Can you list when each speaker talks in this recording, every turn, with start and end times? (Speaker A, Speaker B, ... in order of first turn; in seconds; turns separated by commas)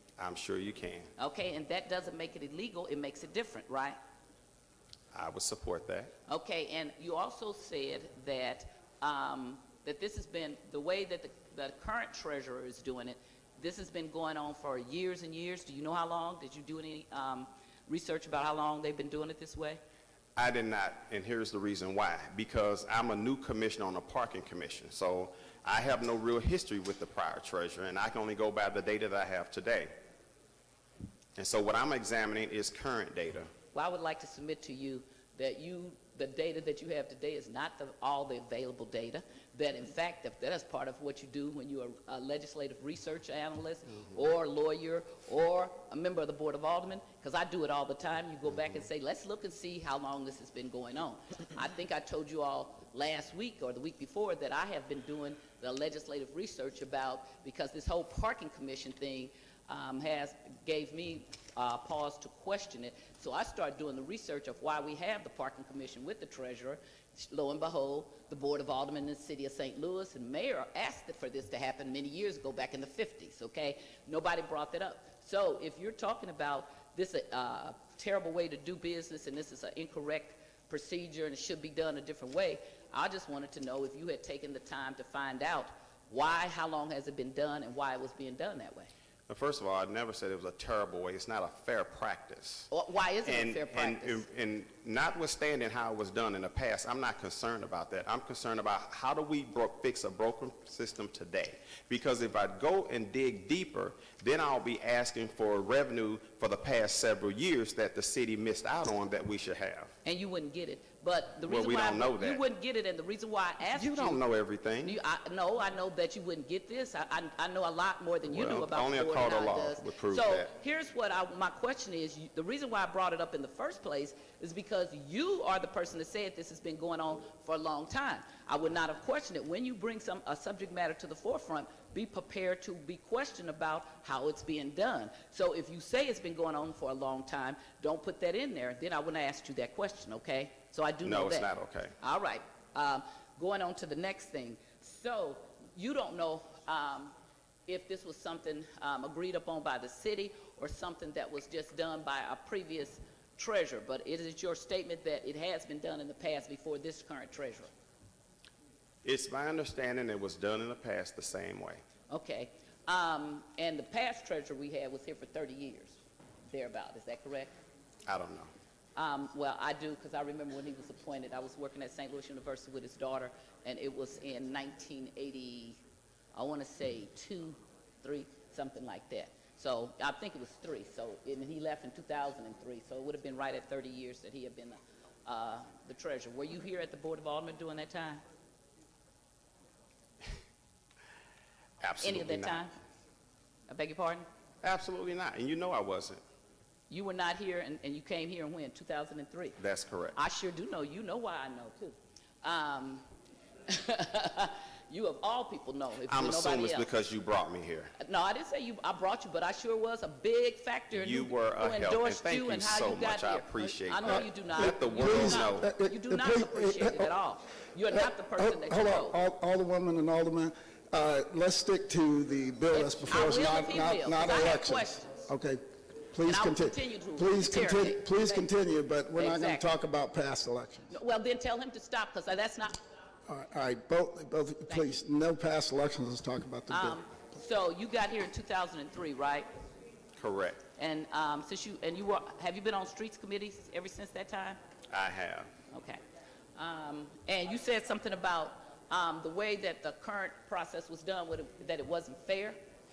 Speaker A: 0.2-1.1, Speaker B: 1.2-4.0, Speaker A: 5.1-6.1, Speaker B: 6.3-19.8, Speaker A: 20.4-29.9, Speaker A: 31.4-33.5, Speaker B: 33.7-88.9, Speaker A: 89.3-92.7, Speaker B: 92.7-94.2, Speaker A: 93.2-109.9, Speaker B: 110.0-114.2, Speaker A: 111.5-112.4, Speaker A: 113.7-115.0, Speaker B: 114.8-147.1, Speaker A: 118.3-120.5, Speaker A: 141.0-141.9, Speaker B: 147.7-157.7, Speaker A: 159.0-161.8, Speaker B: 162.1-167.5, Speaker A: 168.1-168.5, Speaker B: 169.0-175.8, Speaker B: 176.3-188.2, Speaker A: 191.8-192.7, Speaker B: 192.0-192.7, Speaker B: 193.7-194.3, Speaker A: 194.6-196.2, Speaker B: 196.9-199.6, Speaker A: 199.6-200.2, Speaker B: 200.2-203.1, Speaker B: 203.7-206.9, Speaker A: 206.1-207.9, Speaker B: 208.0-219.2, Speaker A: 210.9-215.7, Speaker C: 214.1-217.1, Speaker C: 217.9-230.9, Speaker B: 222.7-225.3, Speaker B: 226.2-228.5, Speaker B: 229.2-229.7, Speaker B: 230.9-232.8, Speaker C: 233.3-237.0, Speaker B: 234.7-235.0, Speaker B: 236.7-239.5, Speaker A: 240.2-240.6, Speaker B: 240.8-244.6, Speaker A: 244.9-245.5, Speaker B: 245.7-246.0, Speaker B: 246.6-252.6